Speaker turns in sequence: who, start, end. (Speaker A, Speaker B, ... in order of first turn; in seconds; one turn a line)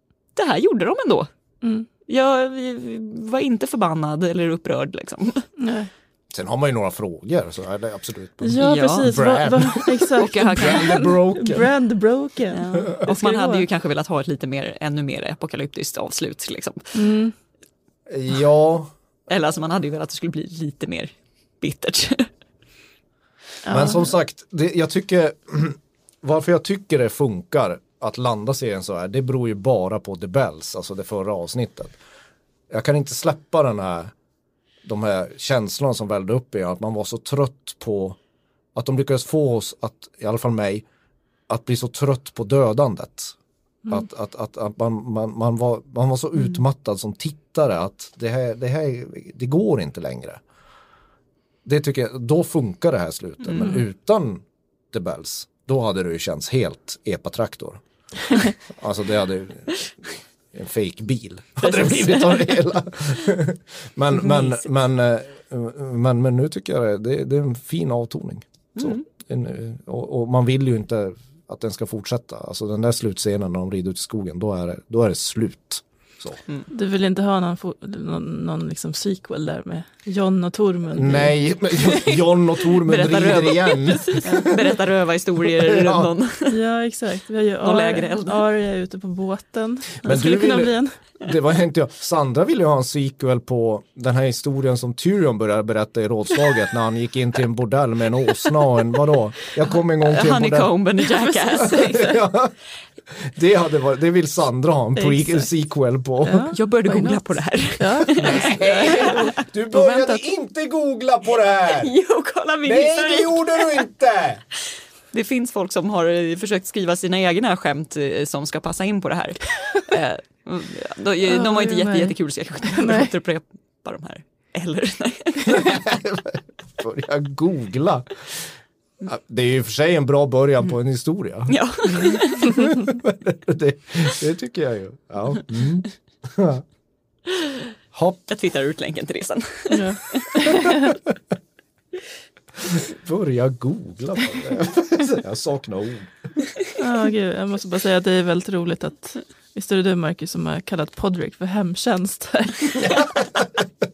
Speaker A: 0.4-1.3
Speaker A: 2.1-5.5
Speaker B: 5.6-5.9
Speaker C: 6.3-11.7
Speaker B: 8.4-13.7
Speaker A: 8.6-9.2
Speaker A: 10.2-11.1
Speaker A: 12.5-16.9
Speaker B: 16.9-17.3
Speaker C: 18.1-18.9
Speaker A: 19.3-22.3
Speaker B: 23.6-24.1
Speaker C: 23.7-32.0
Speaker C: 32.7-34.1
Speaker C: 34.8-38.2
Speaker C: 38.8-40.9
Speaker C: 41.5-43.4
Speaker C: 43.9-50.4
Speaker C: 51.6-57.8
Speaker C: 58.7-76.4
Speaker A: 61.6-62.5
Speaker A: 68.8-69.0
Speaker B: 76.7-82.1
Speaker C: 80.9-84.7
Speaker A: 82.9-86.6
Speaker C: 85.4-86.1
Speaker B: 86.5-91.0
Speaker A: 87.6-88.4
Speaker C: 90.0-100.7
Speaker A: 99.6-102.0
Speaker B: 101.1-102.2
Speaker C: 101.6-102.5
Speaker C: 103.1-106.5
Speaker B: 105.0-105.4
Speaker B: 106.2-107.2
Speaker A: 106.5-109.3
Speaker B: 107.8-110.2
Speaker C: 108.2-111.9
Speaker A: 111.7-113.9
Speaker C: 112.6-114.4
Speaker A: 115.1-125.8
Speaker B: 121.3-122.2
Speaker B: 122.7-123.1
Speaker C: 125.5-128.5
Speaker C: 129.1-136.7
Speaker A: 131.5-132.7
Speaker C: 137.9-138.2
Speaker A: 138.3-140.5
Speaker B: 139.7-140.9
Speaker C: 142.6-146.3
Speaker B: 146.8-153.0
Speaker C: 152.8-153.7